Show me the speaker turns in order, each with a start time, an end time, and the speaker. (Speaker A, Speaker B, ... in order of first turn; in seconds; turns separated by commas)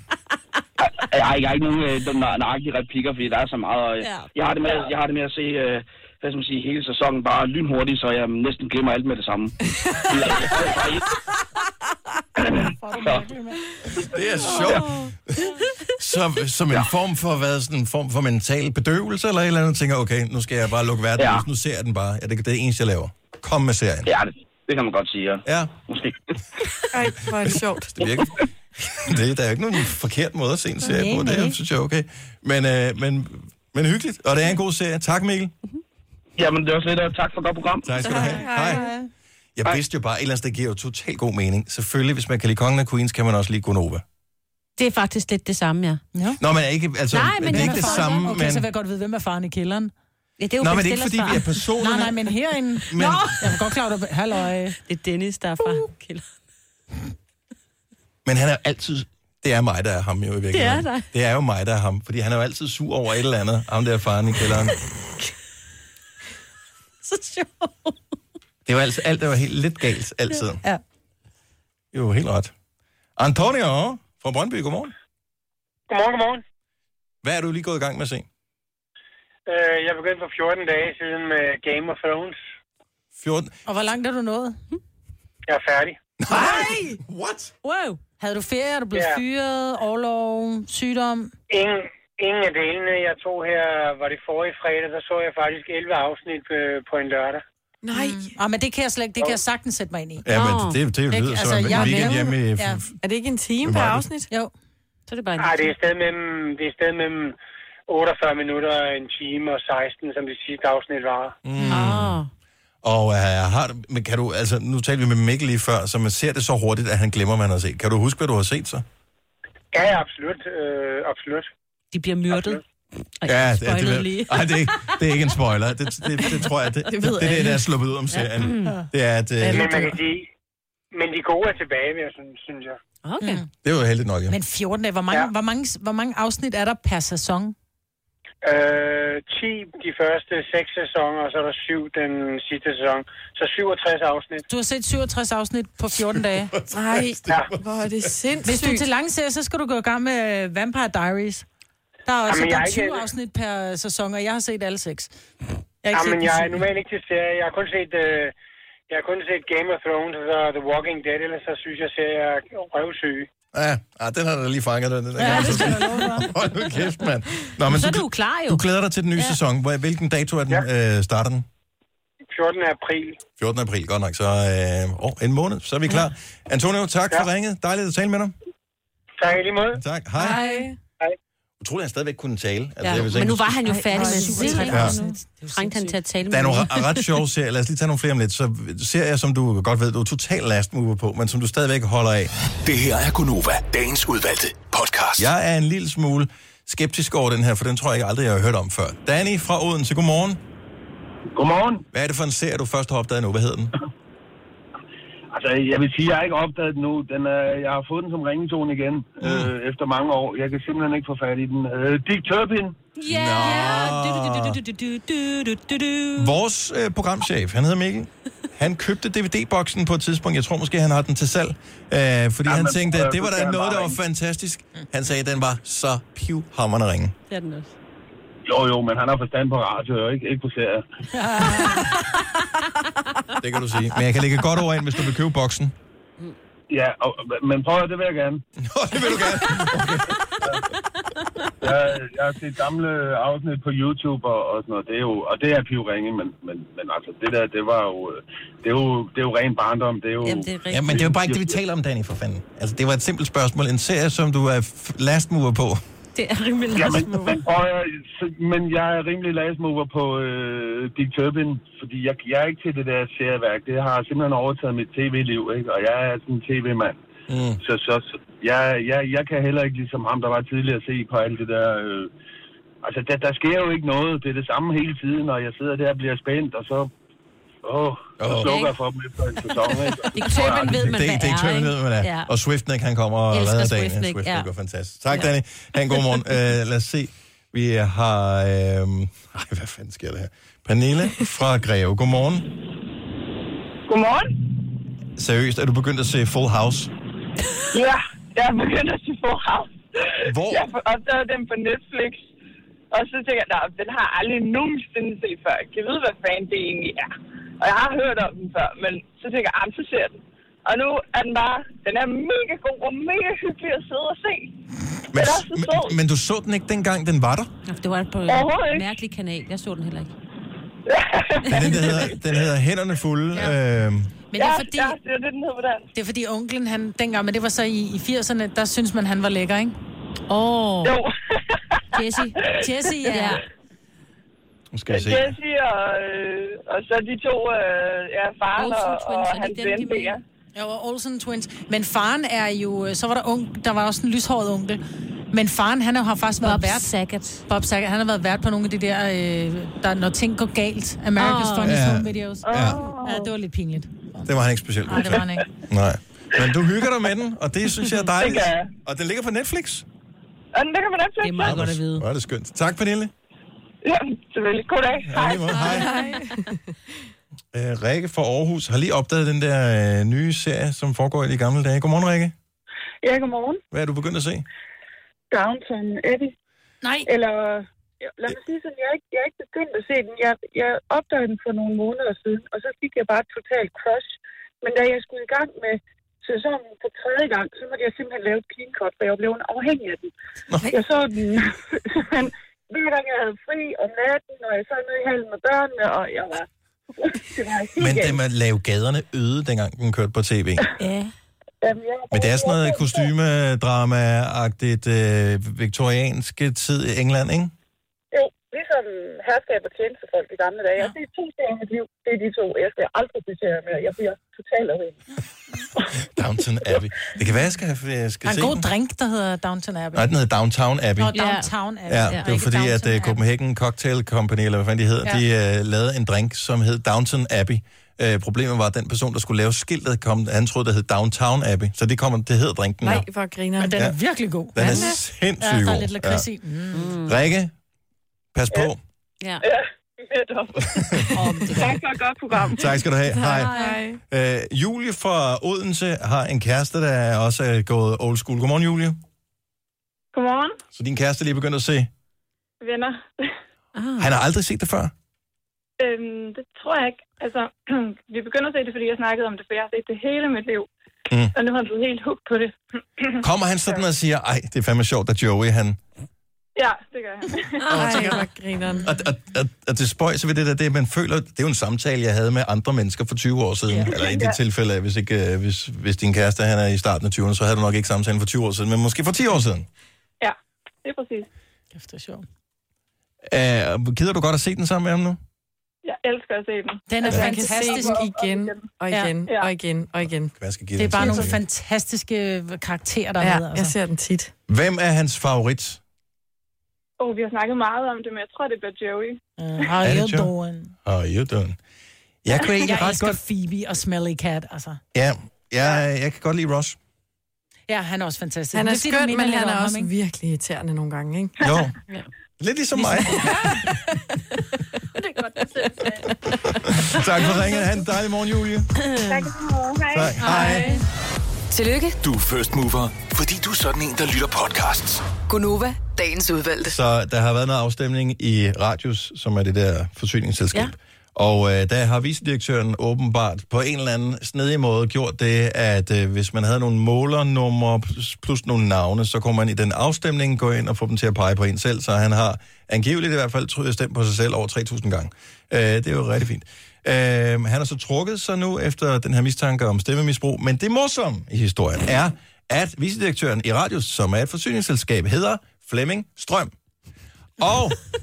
Speaker A: 0.8-11.1, Speaker B: 4.0-4.3, Speaker A: 12.4-13.3, Speaker C: 12.6-13.6, Speaker D: 14.0-24.1, Speaker A: 21.2-21.4, Speaker A: 24.1-26.2, Speaker D: 25.4-25.7, Speaker E: 26.9-28.0, Speaker D: 27.4-28.4, Speaker D: 28.9-35.5, Speaker C: 30.9-31.5, Speaker A: 36.4-38.2, Speaker D: 37.8-38.9, Speaker E: 38.0-38.9, Speaker C: 38.7-38.9, Speaker D: 39.5-44.0, Speaker B: 44.8-46.0, Speaker C: 46.1-46.4, Speaker D: 46.4-48.6, Speaker B: 47.1-48.3, Speaker C: 47.5-49.9, Speaker B: 50.4-51.6, Speaker D: 50.6-52.3, Speaker C: 51.8-54.8, Speaker D: 52.9-53.4, Speaker B: 53.0-53.3, Speaker B: 54.8-56.2, Speaker D: 58.2-64.8, Speaker B: 60.5-61.1, Speaker B: 67.0-67.9, Speaker D: 68.7-70.6, Speaker D: 71.9-72.5, Speaker D: 73.2-74.9, Speaker F: 75.9-76.4, Speaker D: 77.2-78.2, Speaker F: 79.5-82.4, Speaker D: 83.2-83.5, Speaker C: 83.7-84.6, Speaker F: 85.5-86.0, Speaker D: 86.2-87.5, Speaker C: 86.3-86.9, Speaker C: 87.6-91.3, Speaker F: 88.9-89.2, Speaker F: 91.5-97.4, Speaker E: 97.8-98.3, Speaker C: 97.9-100.2, Speaker D: 100.2-103.0, Speaker B: 100.3-100.8, Speaker C: 101.1-102.8, Speaker E: 101.7-102.2, Speaker E: 103.0-104.3, Speaker D: 103.6-104.1, Speaker B: 105.1-105.7, Speaker F: 105.4-107.3, Speaker F: 107.9-111.4, Speaker D: 111.4-112.2, Speaker C: 111.6-111.9, Speaker B: 111.7-112.3, Speaker D: 112.8-118.8, Speaker F: 119.7-121.5, Speaker B: 121.9-122.6, Speaker F: 122.3-122.6, Speaker B: 123.2-125.0, Speaker D: 123.2-129.9, Speaker E: 127.0-127.3, Speaker B: 128.1-128.8, Speaker E: 129.4-129.9, Speaker F: 129.5-130.3, Speaker F: 130.9-132.8, Speaker B: 133.0-133.4, Speaker C: 133.2-133.4, Speaker D: 133.6-134.4, Speaker C: 134.3-137.5, Speaker F: 138.4-144.4, Speaker C: 144.5-146.5, Speaker D: 146.1-148.1, Speaker E: 146.7-148.8, Speaker C: 148.4-151.4, Speaker C: 152.1-155.1, Speaker F: 152.3-153.0, Speaker C: 155.8-156.6, Speaker F: 155.9-158.3, Speaker F: 158.9-163.3, Speaker D: 163.5-171.4, Speaker C: 165.2-166.3, Speaker B: 165.3-165.8, Speaker B: 167.7-168.6, Speaker F: 172.2-173.2, Speaker D: 173.4-178.3, Speaker F: 179.2-179.8, Speaker D: 179.8-180.4, Speaker E: 180.2-180.8, Speaker D: 181.6-183.7, Speaker B: 182.8-187.1, Speaker C: 183.7-185.9, Speaker E: 183.7-184.9, Speaker D: 184.7-184.9, Speaker D: 186.3-192.3, Speaker G: 192.6-195.3, Speaker D: 195.2-200.4, Speaker H: 201.3-201.8, Speaker D: 201.9-203.7, Speaker H: 205.3-212.8, Speaker D: 209.2-209.5, Speaker B: 213.0-216.3, Speaker D: 213.1-214.6, Speaker D: 216.1-227.1, Speaker H: 222.4-224.0, Speaker B: 227.3-227.7, Speaker H: 228.4-230.8, Speaker C: 231.1-231.9, Speaker D: 233.4-235.7, Speaker H: 236.7-238.4, Speaker D: 238.6-240.2, Speaker H: 241.6-251.5, Speaker B: 250.2-251.2, Speaker D: 250.7-255.8, Speaker B: 256.1-257.4, Speaker H: 256.7-267.0, Speaker D: 267.3-267.6, Speaker H: 267.6-272.1, Speaker H: 272.8-276.9, Speaker H: 277.6-280.8, Speaker D: 278.2-278.5, Speaker B: 278.4-278.7, Speaker B: 280.1-282.3, Speaker D: 280.4-292.5, Speaker B: 283.3-284.5, Speaker D: 295.2-296.9, Speaker D: 300.2-300.7, Speaker I: 308.1-310.1, Speaker I: 310.7-314.4, Speaker D: 315.1-317.5, Speaker I: 315.2-315.9, Speaker B: 317.6-320.1, Speaker I: 318.3-318.8, Speaker D: 321.5-324.1, Speaker C: 324.3-324.9, Speaker I: 324.4-325.7, Speaker C: 325.9-329.8, Speaker B: 330.3-331.0, Speaker B: 331.9-332.4, Speaker C: 332.6-333.4, Speaker B: 333.0-333.4, Speaker D: 334.7-335.4, Speaker I: 334.9-340.1, Speaker B: 338.5-340.2, Speaker C: 340.6-344.8, Speaker C: 345.3-346.9, Speaker B: 346.4-347.4, Speaker C: 347.5-354.3, Speaker B: 351.2-351.8, Speaker D: 351.6-352.8, Speaker D: 354.2-359.8, Speaker C: 354.9-355.5, Speaker I: 360.6-361.3, Speaker B: 361.2-362.1, Speaker D: 361.4-363.1, Speaker I: 363.8-365.4, Speaker D: 365.0-366.0, Speaker E: 365.5-366.6, Speaker B: 366.1-366.4, Speaker D: 367.5-372.3, Speaker J: 373.0-373.6, Speaker D: 373.7-374.5, Speaker J: 375.3-376.3, Speaker C: 376.8-377.1, Speaker J: 377.1-390.1, Speaker J: 390.6-398.2, Speaker D: 397.8-400.6, Speaker B: 400.8-401.1, Speaker J: 401.6-403.1, Speaker D: 402.1-407.5, Speaker J: 408.1-415.0, Speaker D: 416.0-418.7, Speaker C: 418.2-420.1, Speaker D: 419.9-421.1, Speaker C: 421.0-423.2, Speaker B: 421.1-421.5, Speaker D: 421.9-433.0, Speaker E: 432.8-433.8, Speaker C: 433.6-436.9, Speaker D: 434.5-436.2, Speaker E: 434.6-435.0, Speaker B: 436.7-437.1, Speaker D: 437.1-437.5, Speaker D: 438.3-438.8, Speaker J: 440.0-440.6, Speaker D: 440.7-441.1, Speaker B: 441.1-441.8, Speaker J: 441.6-442.6, Speaker D: 442.5-443.6, Speaker E: 443.1-444.0, Speaker D: 444.1-449.0, Speaker K: 450.1-450.6, Speaker D: 450.7-451.9, Speaker K: 452.6-453.3, Speaker B: 453.7-454.1, Speaker D: 454.0-454.9, Speaker K: 455.8-460.7, Speaker K: 461.3-463.2, Speaker D: 463.2-465.8, Speaker K: 466.6-467.6, Speaker E: 467.7-468.9, Speaker B: 467.7-468.2, Speaker D: 467.8-468.0, Speaker D: 468.8-479.7, Speaker K: 474.0-474.4, Speaker K: 480.2-481.3, Speaker C: 481.7-482.2, Speaker D: 483.3-485.2, Speaker K: 485.8-488.6, Speaker C: 486.9-488.1, Speaker E: 487.1-490.3, Speaker D: 490.3-491.4, Speaker C: 490.8-493.7, Speaker E: 493.2-494.3, Speaker D: 494.5-495.8, Speaker K: 497.0-499.2, Speaker C: 499.4-500.7, Speaker D: 499.8-500.3, Speaker D: 500.8-501.6, Speaker D: 502.2-503.2, Speaker C: 502.6-504.8, Speaker D: 504.9-506.8, Speaker C: 507.7-509.9, Speaker E: 508.5-511.3, Speaker D: 511.4-511.7, Speaker D: 512.4-513.4, Speaker C: 513.1-513.7, Speaker D: 516.6-518.7, Speaker B: 518.8-519.2, Speaker D: 519.9-520.7, Speaker E: 520.2-520.8, Speaker C: 520.2-520.7, Speaker L: 521.5-522.0, Speaker G: 522.0-525.1, Speaker L: 525.2-526.8, Speaker D: 526.7-556.5, Speaker D: 557.4-557.8